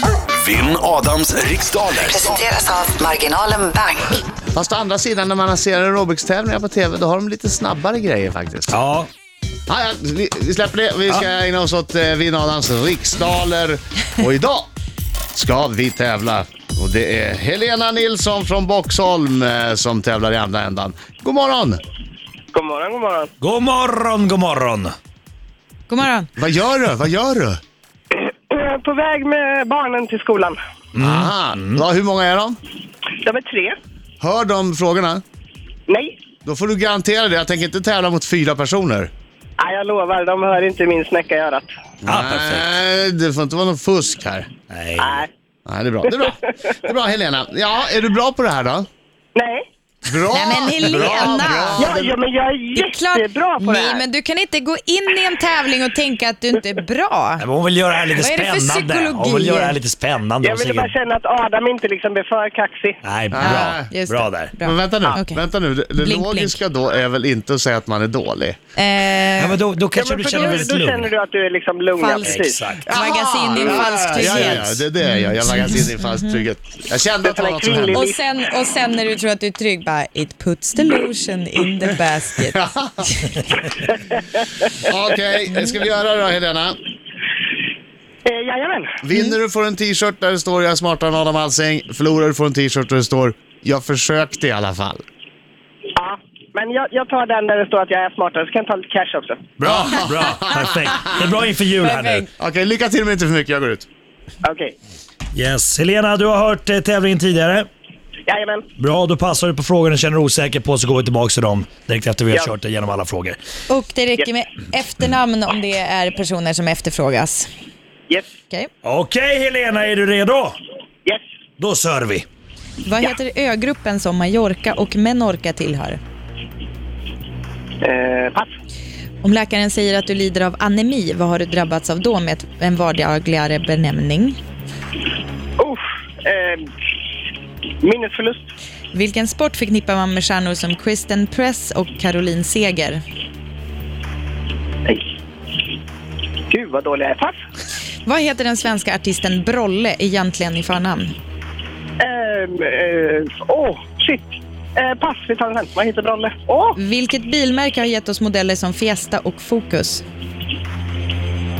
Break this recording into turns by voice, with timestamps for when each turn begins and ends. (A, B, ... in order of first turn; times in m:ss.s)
0:00.3-0:02.4 A
0:02.0-0:04.2 B
0:04.5-0:08.7 C
0:08.7-0:09.1 D
0:09.7-0:14.7 C
0:15.3-0:21.8 C
0:22.5-0:23.3 E
0:23.4-0:24.9 D
0:25.9-0:26.3 F
0:26.4-0:27.6 C
0:28.1-0:30.6 E
0:30.9-0:31.8 D
0:31.0-0:32.6 C
0:33.2-0:33.8 E
0:34.2-0:35.2 C
0:35.9-0:36.2 E
0:36.4-0:39.1 C
0:39.6-0:41.7 E
0:42.0-0:44.5 C
0:42.0-0:42.7 D
0:44.7-0:45.2 D
0:45.0-0:45.3 E
0:45.7-0:48.9 C
0:49.3-0:49.6 E
0:50.0-0:52.2 C
0:50.3-0:51.9 F
0:50.8-0:51.3 D
0:51.8-0:54.0 E
0:52.7-0:57.4 F
0:57.4-1:00.9 D
0:58.1-0:59.8 F
1:00.4-1:03.0 E
1:03.0-1:04.5 D
1:03.3-1:03.9 C
1:03.4-1:05.4 F
1:04.6-1:08.6 C
1:05.9-1:06.6 F
1:08.8-1:09.6 F
1:09.4-1:11.1 D
1:10.0-1:12.6 E
1:12.0-1:16.5 F
1:12.2-1:12.8 D
1:12.9-1:18.0 C
1:13.6-1:14.3 E
1:17.2-1:18.2 E
1:17.9-1:23.4 F
1:22.5-1:23.0 C
1:24.8-1:26.8 C
1:28.2-1:29.0 E
1:29.0-1:35.0 C
1:36.0-1:39.5 E
1:39.6-1:42.3 D
1:39.6-1:41.1 C
1:41.8-1:42.3 F
1:42.4-1:43.9 C
1:44.4-1:44.7 E
1:45.3-1:47.7 D
1:48.3-1:48.6 E
1:48.8-1:53.4 D
1:53.7-1:57.5 F
1:58.8-2:00.6 D
2:01.6-2:02.2 D
2:02.8-2:06.0 F
2:07.8-2:08.5 E
2:09.2-2:14.4 F
2:15.6-2:16.6 E
2:17.8-2:18.4 E
2:18.9-2:23.0 F
2:26.5-2:27.4 E
2:28.0-2:31.1 F
2:32.0-2:36.8 E
2:36.8-2:40.0 F